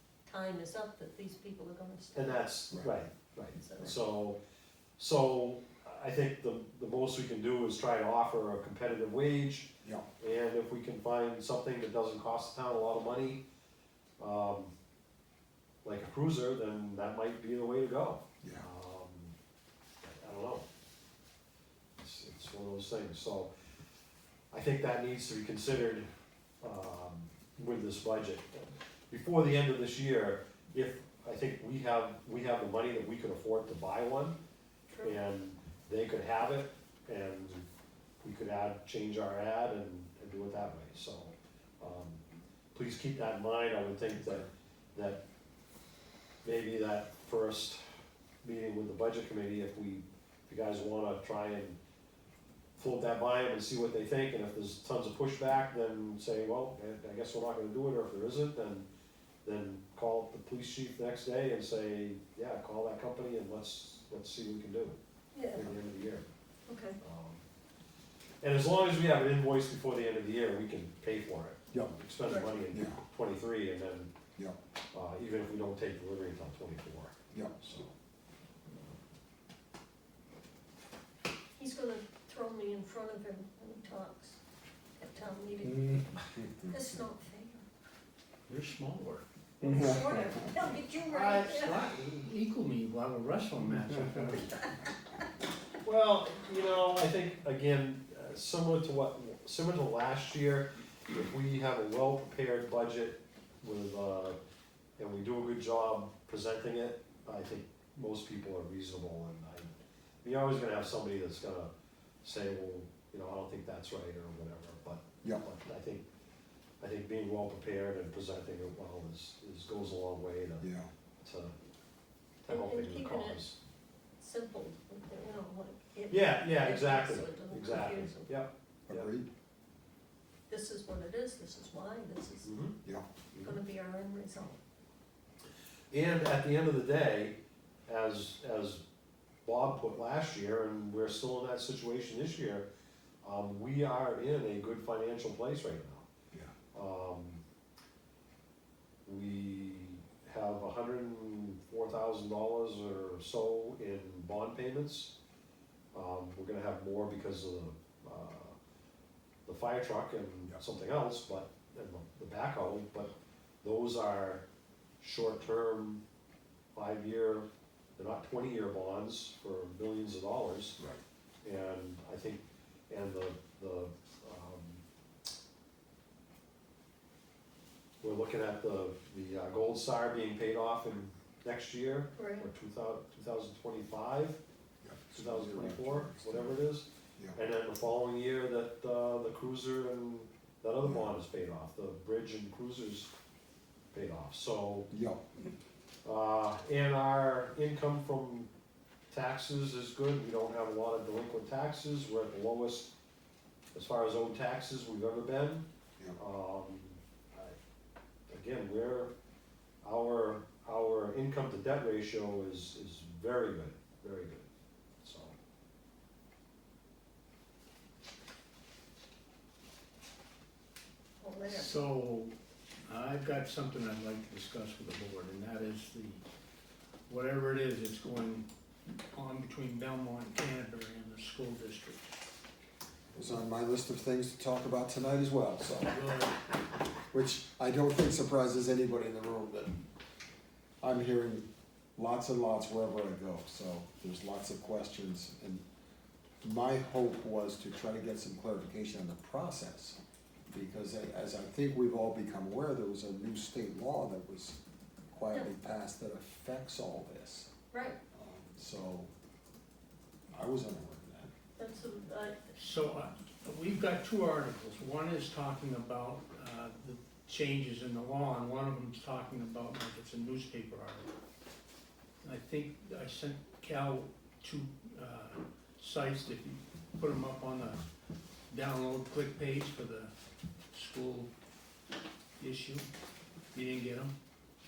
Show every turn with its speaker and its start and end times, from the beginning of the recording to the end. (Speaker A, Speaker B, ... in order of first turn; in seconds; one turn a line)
Speaker A: 0.3-2.4
Speaker B: 2.1-4.4
Speaker A: 3.6-4.0
Speaker B: 5.0-13.4
Speaker B: 14.2-14.7
Speaker B: 15.8-19.4
Speaker C: 18.4-18.7
Speaker B: 20.0-20.6
Speaker B: 22.0-23.5
Speaker B: 24.5-26.1
Speaker B: 26.6-34.4
Speaker A: 34.9-35.1
Speaker B: 35.0-37.7
Speaker B: 38.2-42.2
Speaker B: 42.7-45.2
Speaker B: 46.4-47.8
Speaker B: 48.4-51.8
Speaker B: 52.8-58.9
Speaker B: 59.5-65.0
Speaker A: 65.3-65.6
Speaker B: 65.5-66.3
Speaker A: 66.7-67.0
Speaker B: 67.0-67.4
Speaker B: 68.4-74.1
Speaker A: 72.3-72.5
Speaker C: 72.7-73.0
Speaker B: 74.9-77.9
Speaker C: 77.3-77.8
Speaker A: 81.6-84.4
Speaker A: 85.0-87.7
Speaker C: 85.7-86.7
Speaker D: 88.5-89.3
Speaker C: 89.6-90.6
Speaker A: 89.6-91.9
Speaker D: 91.1-94.6
Speaker B: 91.1-91.5
Speaker A: 94.5-94.9
Speaker B: 95.8-104.4
Speaker B: 105.0-111.7
Speaker B: 112.2-116.0
Speaker B: 116.8-120.7
Speaker C: 120.6-120.9
Speaker B: 121.2-121.5
Speaker B: 122.4-123.6
Speaker A: 122.5-123.4
Speaker A: 124.2-128.4
Speaker B: 126.1-129.1
Speaker C: 128.9-129.3
Speaker A: 130.5-132.5
Speaker B: 132.4-132.8
Speaker C: 132.8-133.1
Speaker A: 133.4-134.6
Speaker B: 135.9-137.4
Speaker B: 137.9-138.8
Speaker B: 139.4-142.7
Speaker B: 143.2-146.1
Speaker B: 146.7-147.4
Speaker B: 149.1-155.1
Speaker B: 155.9-158.6
Speaker B: 159.5-164.4
Speaker B: 165.0-166.0
Speaker B: 166.8-170.8
Speaker B: 171.4-174.8
Speaker B: 178.0-184.4
Speaker A: 182.2-182.5
Speaker C: 184.8-186.6
Speaker B: 185.1-193.1
Speaker C: 190.8-191.1
Speaker B: 193.9-194.9
Speaker C: 194.9-195.2
Speaker B: 196.1-198.5
Speaker B: 199.1-202.9
Speaker B: 203.7-207.6
Speaker B: 208.3-209.1
Speaker B: 209.8-214.5
Speaker B: 215.0-215.3
Speaker A: 221.2-221.7
Speaker D: 221.5-222.3
Speaker D: 222.9-226.2
Speaker D: 227.1-232.1
Speaker C: 233.1-236.0
Speaker D: 235.8-236.4
Speaker C: 237.1-239.8
Speaker C: 240.8-241.4
Speaker C: 242.0-245.6
Speaker C: 246.4-250.0
Speaker C: 250.5-254.6
Speaker C: 255.1-257.5
Speaker A: 257.7-258.0
Speaker C: 258.1-259.1
Speaker C: 260.3-261.3
Speaker A: 261.6-262.4
Speaker D: 262.6-271.1
Speaker D: 272.2-277.9
Speaker D: 278.5-280.1
Speaker D: 280.7-281.3
Speaker D: 282.4-282.9
Speaker D: 283.5-284.1